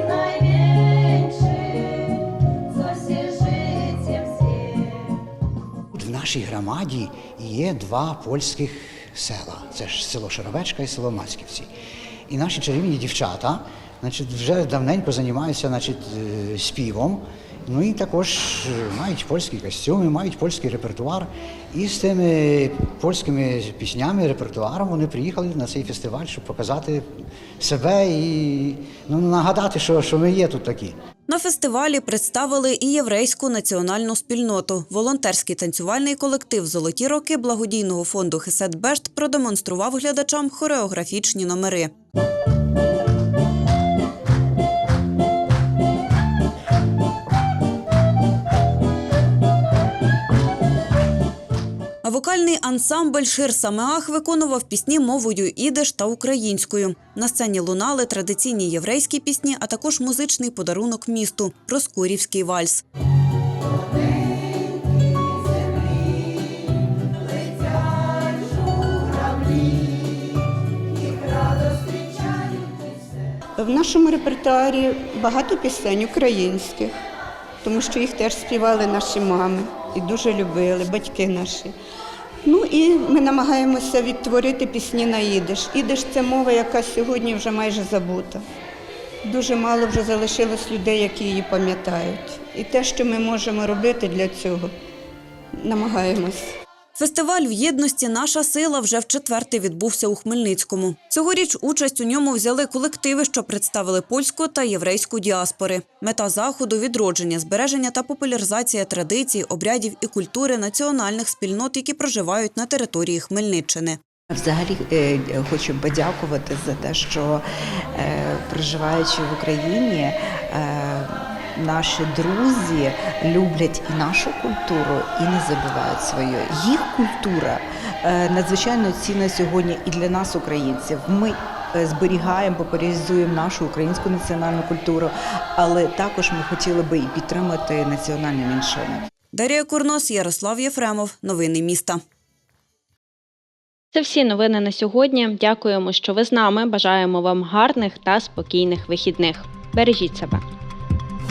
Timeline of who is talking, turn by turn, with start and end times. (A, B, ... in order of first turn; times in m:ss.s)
0:05.9-0:11.7 A
0:12.3-0:27.1 A
0:27.6-0:31.0 A
0:31.3-0:41.9 B
0:52.0-1:02.8 B
1:13.6-1:16.9 C
1:17.6-1:21.7 C
1:22.5-1:28.4 C
1:29.3-1:34.7 C
1:35.6-1:36.4 C
1:37.0-1:54.0 B
1:54.3-2:19.1 D
2:19.3-2:22.0 B
2:23.9-2:30.4 E